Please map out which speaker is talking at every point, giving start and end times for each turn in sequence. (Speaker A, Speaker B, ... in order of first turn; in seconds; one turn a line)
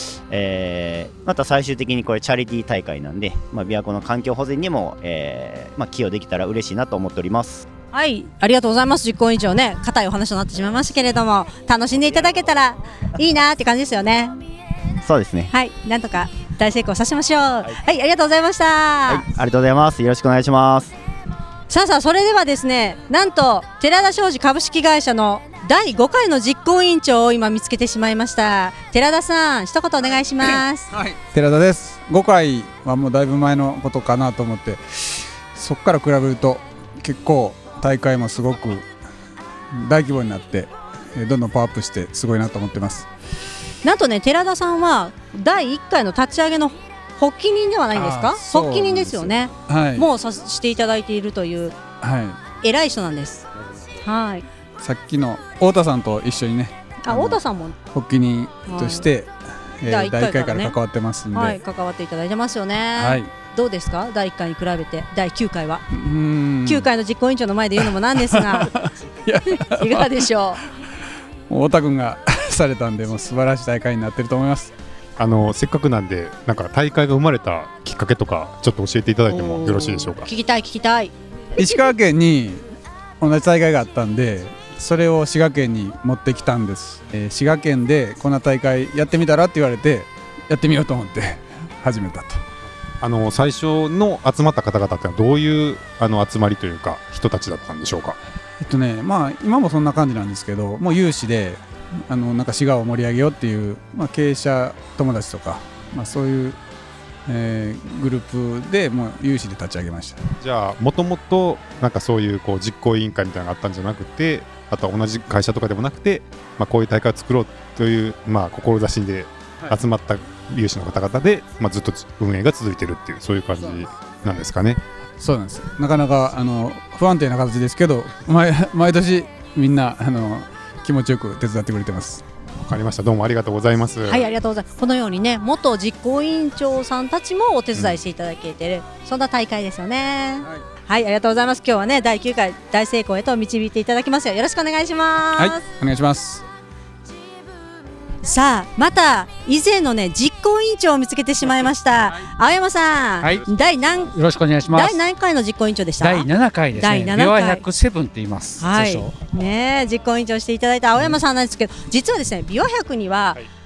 Speaker A: 0.3-7.7
Speaker B: 7.9-14.4
Speaker A: 15.0-15.5
Speaker B: 15.5-19.2
Speaker A: 19.1-20.9
Speaker B: 21.7-30.9
Speaker C: 30.4-38.9
Speaker C: 39.7-43.1
Speaker B: 43.8-51.8
Speaker C: 47.9-50.1
Speaker C: 52.0-52.4
Speaker B: 52.6-53.5
Speaker B: 54.0-54.5
Speaker C: 54.8-57.4
Speaker B: 57.0-57.8
Speaker C: 57.9-61.6
Speaker B: 58.7-59.1
Speaker B: 59.9-60.8
Speaker B: 61.3-65.8
Speaker C: 63.0-63.3
Speaker C: 65.9-66.9
Speaker B: 66.7-68.7
Speaker C: 67.9-70.1
Speaker B: 69.5-70.6
Speaker C: 71.5-74.7
Speaker D: 75.2-80.3
Speaker B: 79.3-81.7
Speaker C: 81.6-82.6
Speaker C: 83.2-92.4
Speaker D: 93.0-98.2
Speaker C: 98.6-106.6
Speaker C: 107.3-110.2
Speaker D: 110.4-124.8
Speaker C: 125.2-132.2
Speaker D: 132.6-134.3
Speaker B: 134.1-145.6
Speaker C: 145.4-146.4
Speaker B: 148.2-154.2
Speaker E: 154.1-155.0
Speaker B: 154.7-157.6
Speaker E: 156.0-159.2
Speaker B: 158.6-163.4